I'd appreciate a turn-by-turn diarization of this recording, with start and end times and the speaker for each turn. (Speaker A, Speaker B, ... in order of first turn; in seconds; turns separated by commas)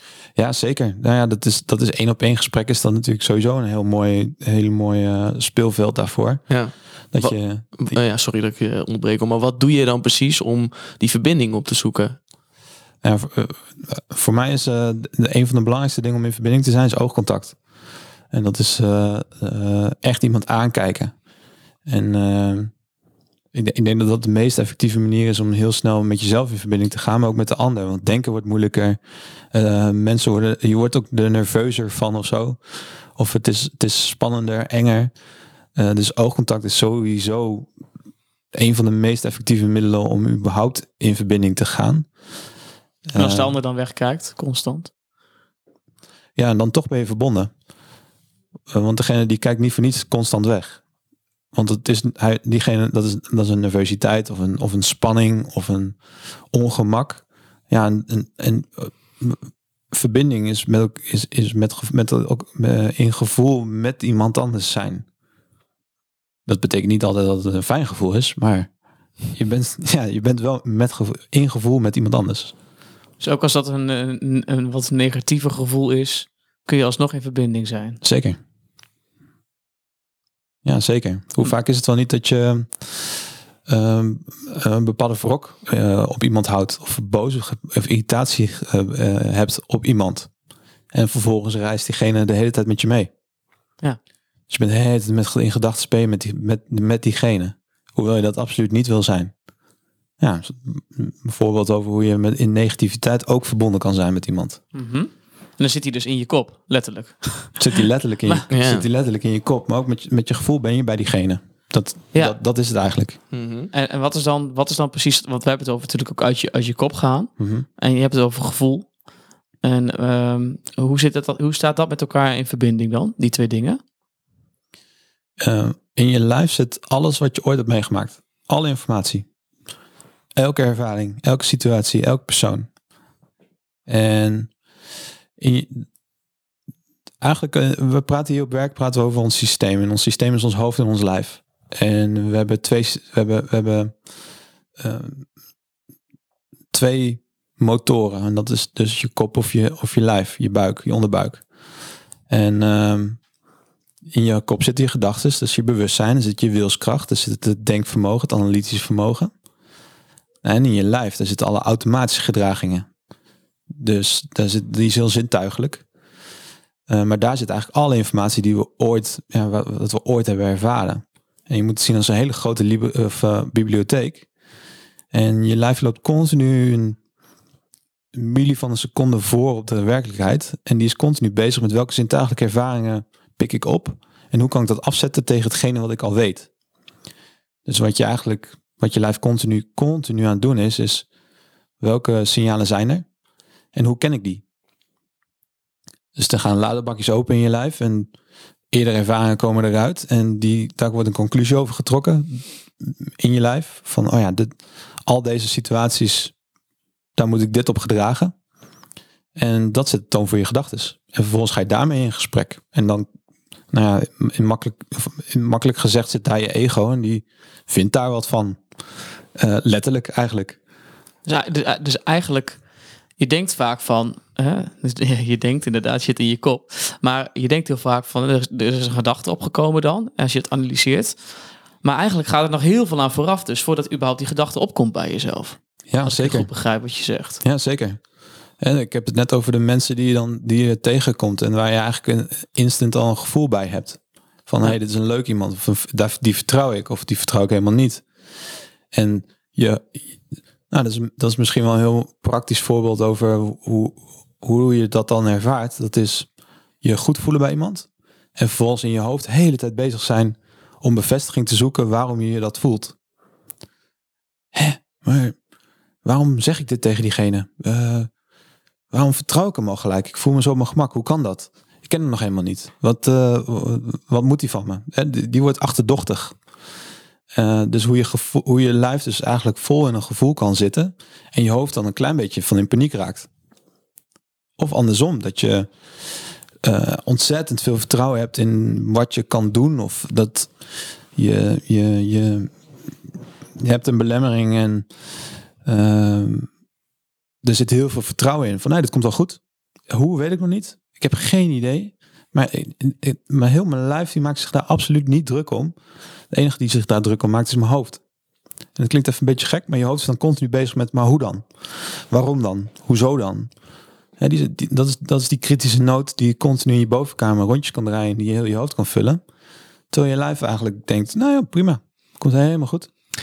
Speaker A: 0.3-6.5, Speaker B: 6.5-12.2, Speaker A: 7.1-8.0, Speaker A: 13.0-17.6, Speaker A: 18.3-21.1, Speaker A: 21.9-22.7, Speaker A: 23.5-29.0, Speaker A: 29.5-32.6, Speaker A: 33.1-35.1, Speaker A: 35.8-37.7, Speaker A: 38.5-42.1, Speaker A: 43.1-43.5, Speaker C: 43.1-44.9, Speaker A: 46.4-47.5, Speaker A: 48.7-50.8, Speaker A: 51.5-56.0, Speaker A: 56.5-65.0, Speaker A: 66.5-68.7, Speaker A: 69.3-72.5, Speaker C: 73.2-78.0, Speaker A: 78.0-78.4, Speaker A: 80.6-83.2, Speaker A: 83.7-90.3, Speaker A: 90.9-93.1, Speaker A: 94.5-99.3, Speaker A: 100.2-104.6, Speaker C: 104.7-108.4, Speaker A: 107.6-113.2, Speaker B: 108.5-108.8, Speaker B: 113.3-113.7, Speaker C: 113.7-118.9, Speaker A: 117.4-117.7, Speaker C: 119.6-123.8, Speaker A: 125.4-129.2, Speaker A: 130.3-132.7, Speaker A: 133.9-134.5, Speaker A: 135.4-135.9, Speaker A: 137.2-143.9, Speaker A: 144.8-145.3, Speaker A: 146.7-151.4, Speaker A: 152.3-153.2, Speaker A: 154.1-159.3, Speaker A: 160.4-162.9, Speaker A: 163.7-165.8, Speaker A: 166.9-174.3, Speaker A: 175.1-177.0, Speaker A: 178.1-186.5, Speaker A: 187.7-191.1, Speaker A: 191.8-193.0, Speaker A: 193.7-194.4, Speaker A: 196.2-198.1, Speaker A: 198.7-204.5, Speaker A: 205.1-206.3, Speaker A: 207.2-208.3, Speaker A: 209.3-213.1, Speaker A: 213.7-218.6, Speaker A: 219.3-220.6, Speaker C: 221.2-222.6, Speaker C: 223.2-231.2, Speaker C: 231.8-237.4, Speaker A: 235.9-236.5, Speaker A: 237.4-238.0, Speaker A: 238.6-248.0, Speaker A: 248.9-250.2, Speaker A: 250.7-256.3, Speaker A: 256.8-262.9, Speaker A: 264.5-265.4, Speaker A: 266.0-268.1, Speaker A: 268.9-276.4, Speaker A: 277.3-283.3, Speaker A: 284.6-285.7, Speaker A: 286.6-290.5, Speaker A: 291.1-292.5, Speaker A: 293.6-294.9, Speaker A: 295.6-296.5, Speaker A: 297.4-305.7, Speaker A: 306.3-308.0, Speaker A: 308.8-313.5, Speaker A: 314.2-319.2, Speaker A: 319.9-322.9